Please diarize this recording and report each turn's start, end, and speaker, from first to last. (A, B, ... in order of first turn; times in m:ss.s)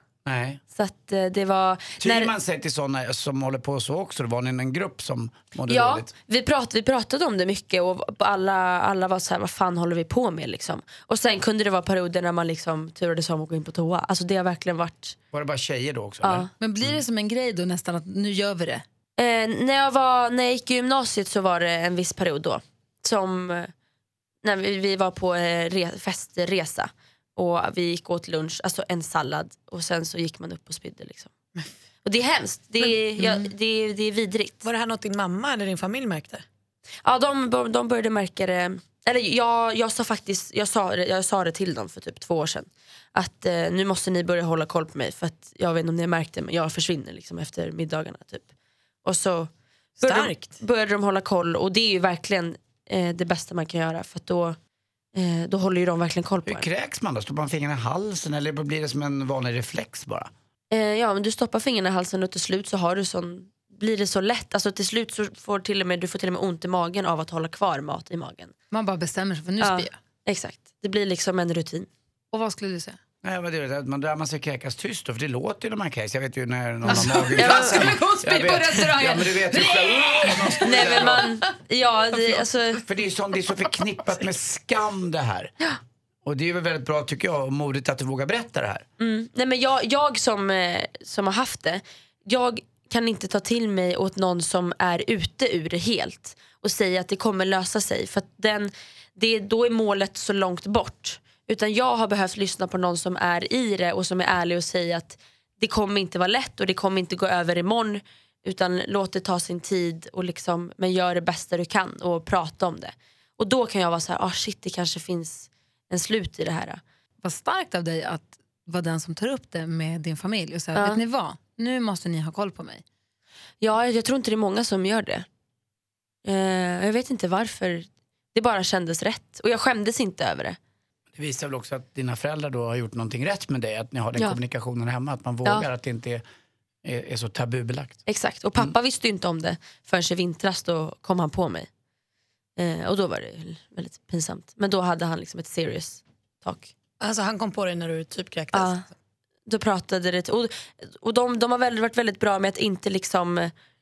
0:00.2-0:00.6 A
0:00.7-0:02.3 B
0:02.0-0:06.1 A
0:05.7-0:15.2 B
0:15.3-0:17.0 A
0:16.2-0:16.5 B
0:16.6-0:18.8 C
0:19.2-0:23.7 B
0:24.4-0:31.3 B
0:32.0-0:34.7 B
0:33.2-0:33.5 C
0:34.6-0:36.4 D
0:37.0-0:48.5 B
0:49.0-0:54.6 B
0:50.0-0:50.6 D
0:55.2-0:56.7 B
0:56.5-1:00.3 A
1:00.7-1:08.5 B
1:08.7-1:10.0 C
1:09.6-1:11.9 B
1:12.3-1:13.0 C
1:13.2-1:21.4 A
1:16.9-1:21.2 C
1:16.9-1:18.0 B
1:20.6-1:22.8 B
1:22.8-1:25.5 A
1:26.2-1:28.9 A
1:29.0-1:56.8 B
1:57.2-2:02.8 C
2:03.6-2:05.3 B
2:06.2-2:10.6 B
2:11.2-2:16.2 A
2:16.8-2:18.0 A
2:18.1-2:21.7 B
2:22.6-2:26.7 B
2:27.0-2:28.9 D
2:28.5-2:28.8 B
2:29.5-2:33.5 B